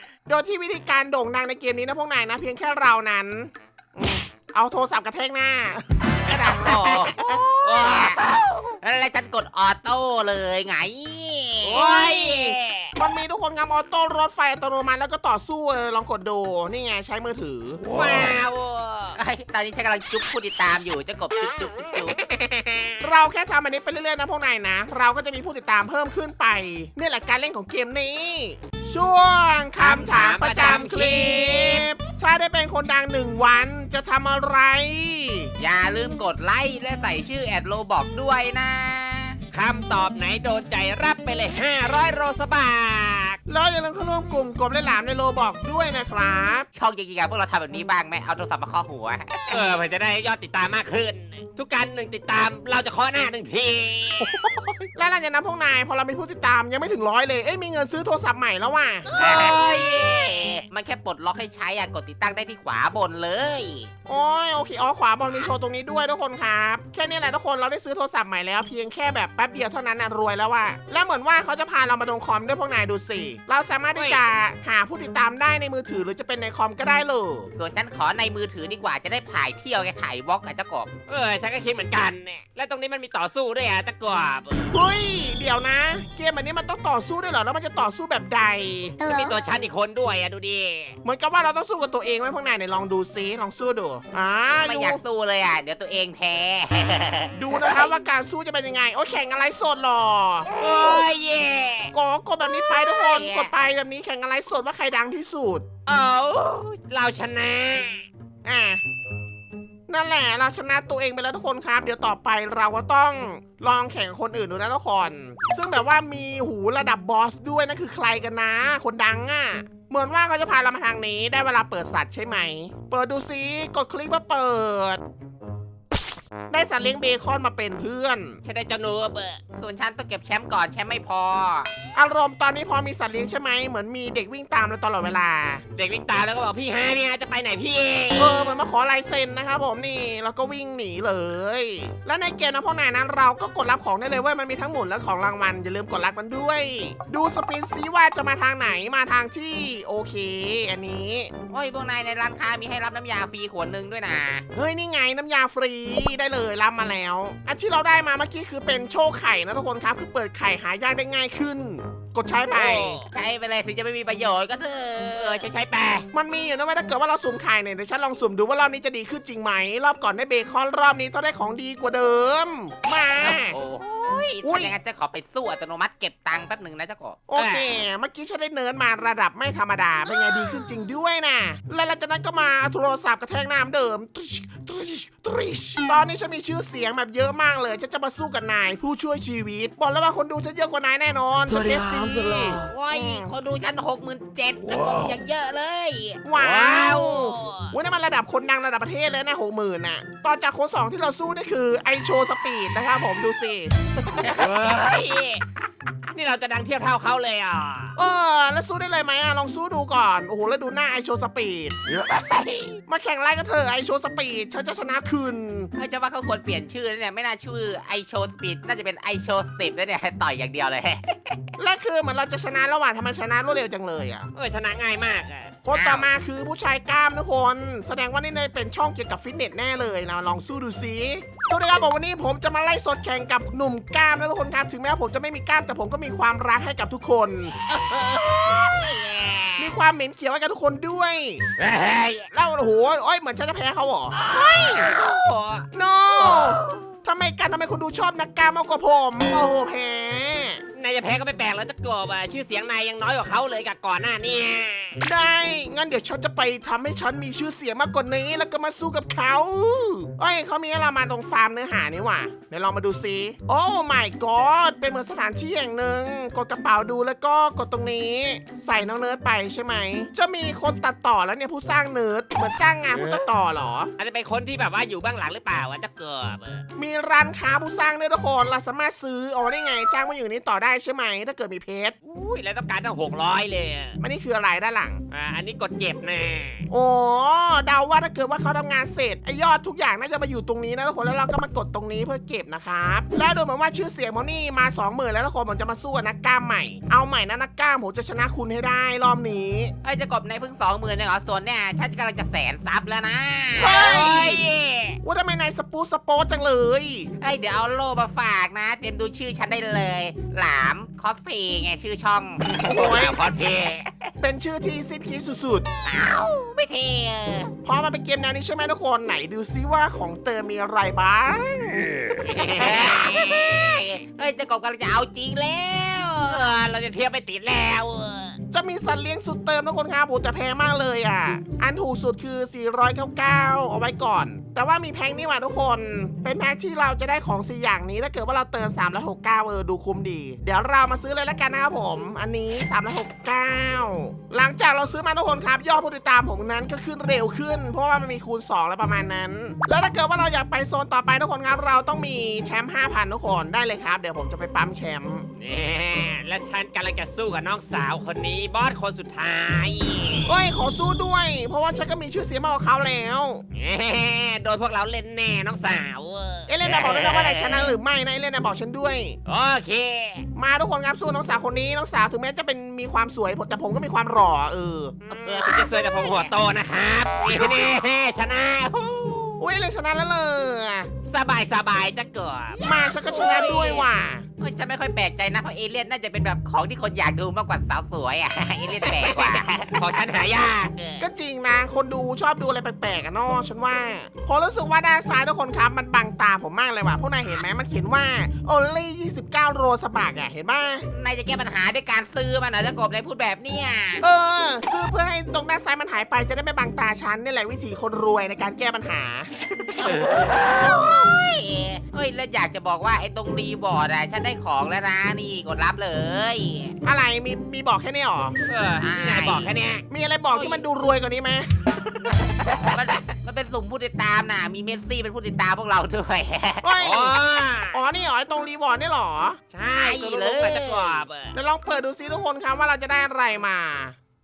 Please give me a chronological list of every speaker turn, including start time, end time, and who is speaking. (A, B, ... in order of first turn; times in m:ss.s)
0:00.3-0:07.4 A
0:06.3-0:08.7 B
0:06.3-0:08.2 C
0:08.8-0:11.8 C
0:11.6-0:12.9 B
0:11.8-0:17.8 A
0:17.9-0:19.2 B
0:19.2-0:22.2 C
0:22.2-0:23.0 B
0:23.0-0:35.5 A
0:29.8-0:31.8 B
0:35.6-0:39.4 C
0:39.5-0:43.4 B
0:43.5-0:46.7 A
0:46.7-0:49.8 C
0:49.5-0:54.4 B
0:54.9-0:59.1 A
0:59.1-1:03.9 C
0:59.2-1:00.4 B
1:04.1-1:17.5 A
1:13.9-1:14.2 B
1:17.6-1:20.9 C
1:21.1-1:24.7 B
1:24.7-1:29.0 A
1:29.0-1:29.3 C
1:29.0-1:31.0 B
1:31.0-1:35.0 A
1:34.6-1:37.3 C
1:37.4-1:40.5 A
1:40.6-1:41.9 B
1:41.9-1:45.7 A
1:43.0-1:43.5 C
1:45.9-1:48.0 B
1:48.4-1:48.8 A
1:49.9-2:05.0 A
2:06.5-2:08.4 A
2:08.4-2:09.4 B
2:09.5-2:11.7 C
2:11.9-2:15.6 A
2:15.8-2:18.5 B
2:18.2-2:31.3 A
2:31.5-2:34.5 C
2:34.5-2:43.0 A
2:42.5-2:45.5 C
2:45.2-2:46.1 B
2:46.1-2:53.6 A
2:53.2-2:57.2 C
2:54.4-2:54.7 A
2:57.3-3:13.3 A
2:57.4-2:57.7 B
3:12.6-3:16.2 C
3:16.2-3:24.3 A
3:16.4-3:17.7 B
3:24.2-3:24.5 C
3:24.4-3:25.4 B
3:26.1-3:27.9 B
3:28.0-3:31.8 A
3:31.9-3:32.8 B
3:32.9-3:35.7 A
3:35.8-3:41.4 C
3:41.6-3:44.3 A
3:44.4-3:45.5 B
3:45.6-3:57.6 A
3:45.7-3:46.1 C
3:57.7-3:59.8 C
3:59.6-4:01.4 A
4:01.6-4:02.3 B
4:02.3-4:04.9 A
4:04.3-4:05.7 C
4:05.7-4:10.6 A
4:10.8-4:15.0 B
4:15.0-4:33.9 A
4:34.0-4:36.6 B
4:36.8-4:42.0 A
4:42.0-4:44.0 B
4:44.0-4:45.0 A
4:45.1-4:46.7 B
4:46.7-4:59.7 A
4:59.8-5:04.3 C
5:03.6-5:04.4 A
5:03.7-5:05.0 B
5:05.0-5:07.1 A
5:07.2-5:13.3 C
5:12.5-5:13.8 B
5:12.6-5:13.2 A
5:14.2-5:15.7 A
5:15.8-5:17.6 C
5:17.6-5:22.0 A
5:22.2-5:23.8 B
5:22.5-5:26.5 C
5:26.3-5:28.4 B
5:28.5-5:55.3 A
5:55.4-6:00.3 B
6:00.3-6:03.4 A
6:03.6-6:06.5 B
6:06.5-6:09.2 A
6:06.6-6:07.8 C
6:09.3-6:10.3 B
6:10.4-6:15.0 A
6:15.1-6:19.4 B
6:15.1-6:16.3 C
6:19.4-6:20.9 A
6:21.1-6:22.6 B
6:22.6-6:29.9 C
6:22.6-6:24.3 A
6:28.8-6:31.0 B
6:31.0-6:40.9 A
6:40.9-6:44.0 C
6:44.0-6:50.1 A
6:49.8-6:56.7 C
6:50.0-6:50.4 B
6:56.8-6:58.4 A
6:58.5-6:59.8 B
6:58.8-6:59.5 C
6:59.9-7:02.4 A
7:00.3-7:00.6 C
7:02.5-7:06.8 C
7:06.6-7:07.2 A
7:06.8-7:07.8 B
7:07.7-7:09.4 A
7:09.5-7:11.4 B
7:09.7-7:11.0 C
7:11.3-7:14.0 A